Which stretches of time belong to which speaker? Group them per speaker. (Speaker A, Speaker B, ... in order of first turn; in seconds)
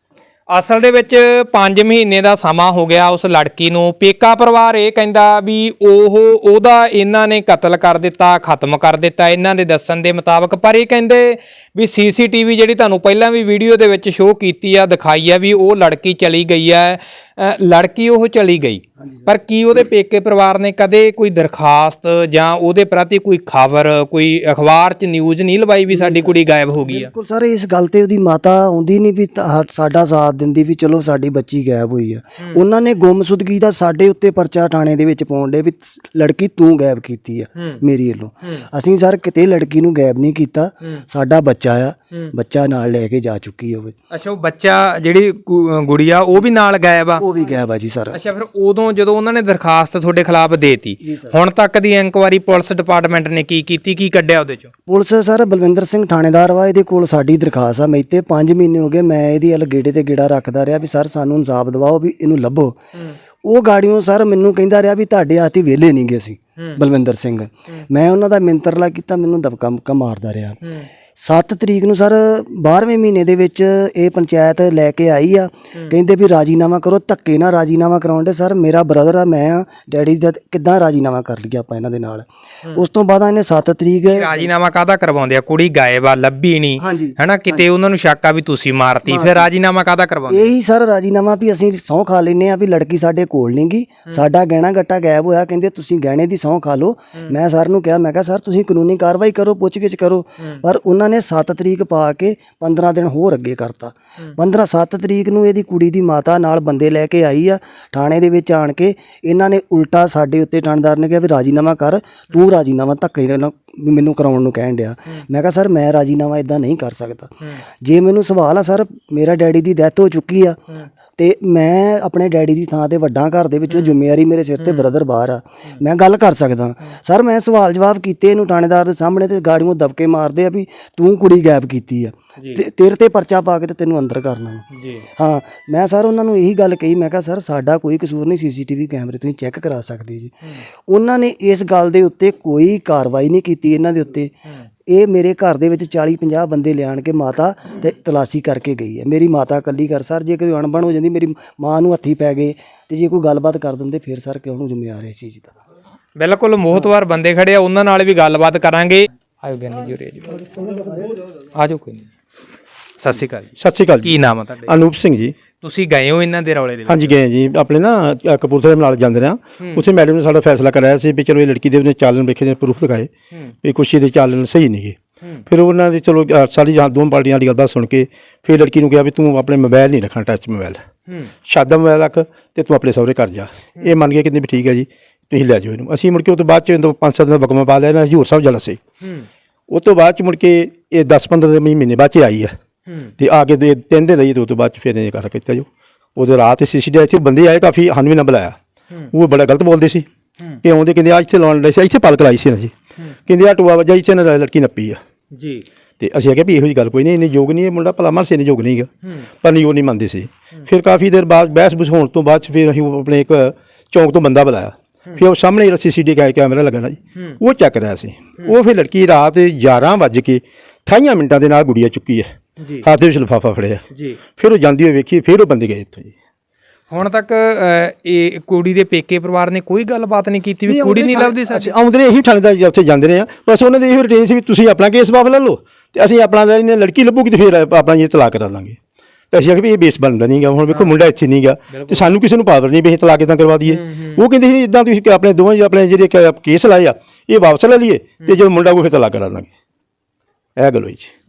Speaker A: 0.5-27.1, 44.1-47.2, 48.1-54.7, 70.6-70.9, 84.1-90.5, 124.6-124.9, 134.7-135.1, 156.2-160.8, 161.5-162.1, 163.0-164.7, 165.6-167.2, 189.0-189.3, 205.3-205.6, 222.6-222.9, 223.9-224.2, 226.9-231.7, 241.7-242.1, 243.7-244.2
Speaker B: 19.0-19.3, 25.9-26.3, 26.8-43.9, 47.2-48.2, 51.0-51.4, 54.9-62.8, 63.4-70.6, 71.2-84.5, 86.8-87.7, 89.0-89.5, 90.3-120.6, 121.2-134.6, 135.2-144.3, 144.9-155.5, 160.6-161.1
Speaker C: 163.6-165.3, 166.9-173.1, 173.6-180.8, 181.4-188.8, 189.7-192.5, 193.2-198.6, 199.1-200.1, 200.6-202.7, 203.2-205.0, 206.0-208.9, 209.4-222.3, 222.8-223.8, 224.4-226.1, 230.7-238.8, 239.3-249.5, 250.6-251.1